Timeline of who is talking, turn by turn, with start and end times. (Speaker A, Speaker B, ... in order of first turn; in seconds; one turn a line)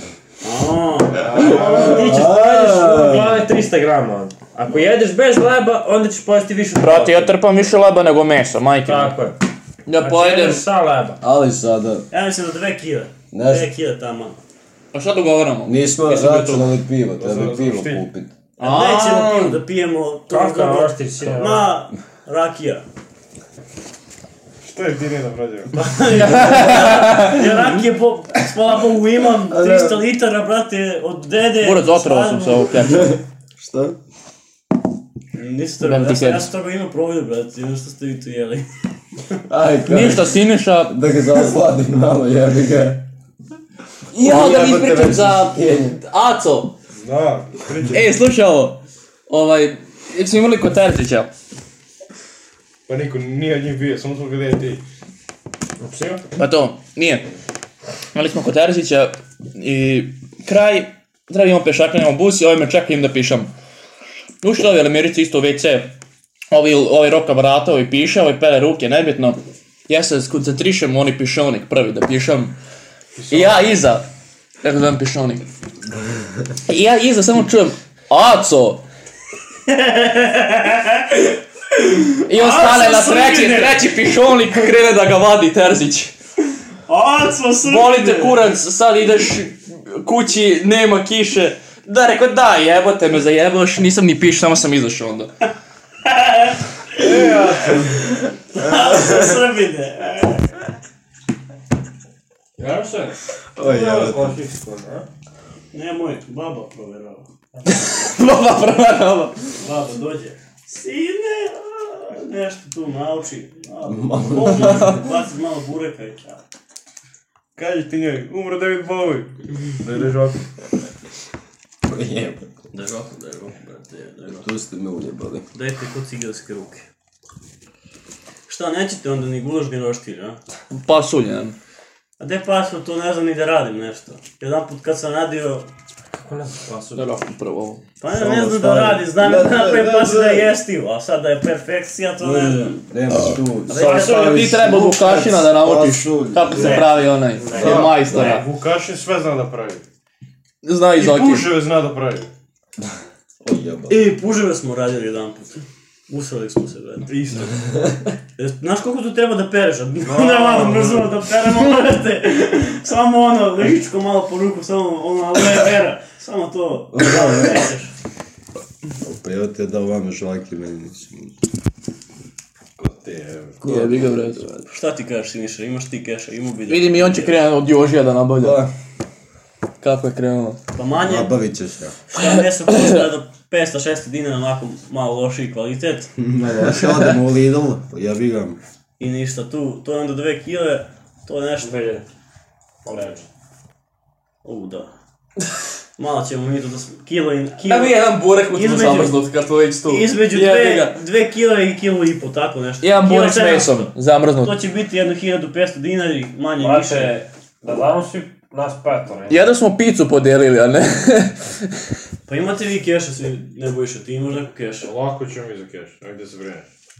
Speaker A: 0.4-1.6
Speaker B: 1.1-2.3
Speaker C: 1.3-7.4
Speaker D: 1.5-3.4
Speaker E: 6.8-9.2
Speaker C: 8.8-9.4
Speaker E: 9.8-10.7
Speaker C: 9.9-11.2
Speaker D: 11.2-12.1
Speaker A: 12.1-14.4
Speaker D: 13.3-13.7
Speaker E: 14.9-16.7
Speaker D: 15.6-18.3
Speaker B: 17.1-18.1
Speaker A: 18.6-22.8
Speaker E: 18.6-19.6
Speaker C: 20.3-21.7
Speaker B: 24.6-25.7
Speaker A: 25.7-32.9
Speaker E: 26.2-27.4
Speaker D: 29.5-30.0
Speaker E: 31.6-33.2
Speaker D: 32.9-34.0
Speaker A: 35.3-38.7
Speaker E: 35.8-36.5
Speaker D: 39.5-43.0
Speaker E: 39.9-41.0
Speaker D: 44.1-46.0
Speaker E: 44.1-46.7
Speaker B: 46.9-48.1
Speaker E: 47.9-51.3
Speaker B: 52.9-54.8
Speaker C: 55.8-56.2
Speaker E: 56.4-57.3
Speaker E: 58.1-63.5
Speaker E: 64.4-65.9
Speaker E: 66.5-72.6
Speaker B: 73.2-73.7
Speaker E: 73.3-74.0
Speaker E: 74.6-75.4
Speaker E: 76.7-78.8
Speaker A: 79.7-81.2
Speaker A: 81.8-83.8
Speaker E: 82.3-86.1
Speaker A: 86.9-88.4
Speaker E: 87.6-95.3
Speaker A: 96.0-97.2
Speaker B: 97.0-98.0
Speaker A: 98.5-100.5
Speaker D: 98.6-99.4
Speaker C: 102.6-105.0
Speaker D: 103.5-104.4
Speaker A: 105.7-107.3
Speaker E: 107.7-109.6
Speaker A: 109.6-116.4
Speaker D: 113.8-115.0
Speaker B: 117.5-120.4
Speaker D: 121.8-122.5
Speaker A: 122.7-124.5
Speaker D: 124.3-125.4
Speaker A: 125.5-126.8
Speaker A: 128.5-130.4
Speaker E: 130.7-131.6
Speaker A: 132.2-135.7
Speaker C: 136.1-137.1
Speaker E: 136.9-137.8
Speaker A: 138.0-142.8
Speaker D: 138.1-140.5
Speaker D: 142.2-146.8
Speaker E: 143.7-148.4
Speaker A: 143.8-144.3
Speaker A: 146.5-146.9
Speaker C: 147.3-148.3
Speaker D: 147.5-148.3
Speaker B: 147.5-149.8
Speaker E: 150.6-151.5
Speaker B: 151.0-152.3
Speaker D: 153.4-154.1
Speaker A: 153.9-157.1
Speaker B: 157.1-157.5
Speaker D: 157.4-158.0
Speaker A: 158.4-167.9
Speaker B: 160.0-161.1
Speaker D: 166.9-167.7
Speaker D: 169.0-171.3
Speaker B: 172.8-173.6
Speaker D: 173.6-174.7
Speaker E: 173.6-174.5
Speaker A: 174.7-177.4
Speaker E: 176.7-178.7
Speaker D: 178.4-178.7
Speaker E: 179.8-180.6
Speaker A: 180.7-181.3
Speaker D: 180.9-182.0
Speaker A: 182.1-186.1
Speaker E: 182.2-183.0
Speaker D: 186.2-188.6
Speaker A: 189.0-191.8
Speaker C: 191.6-192.0
Speaker A: 192.8-193.2
Speaker C: 192.9-193.1
Speaker A: 194.4-194.9
Speaker A: 196.0-199.2
Speaker E: 197.6-201.0
Speaker A: 199.9-207.2
Speaker E: 202.8-204.6
Speaker C: 206.6-209.4
Speaker E: 209.3-211.6
Speaker A: 212.3-214.9
Speaker B: 214.8-216.7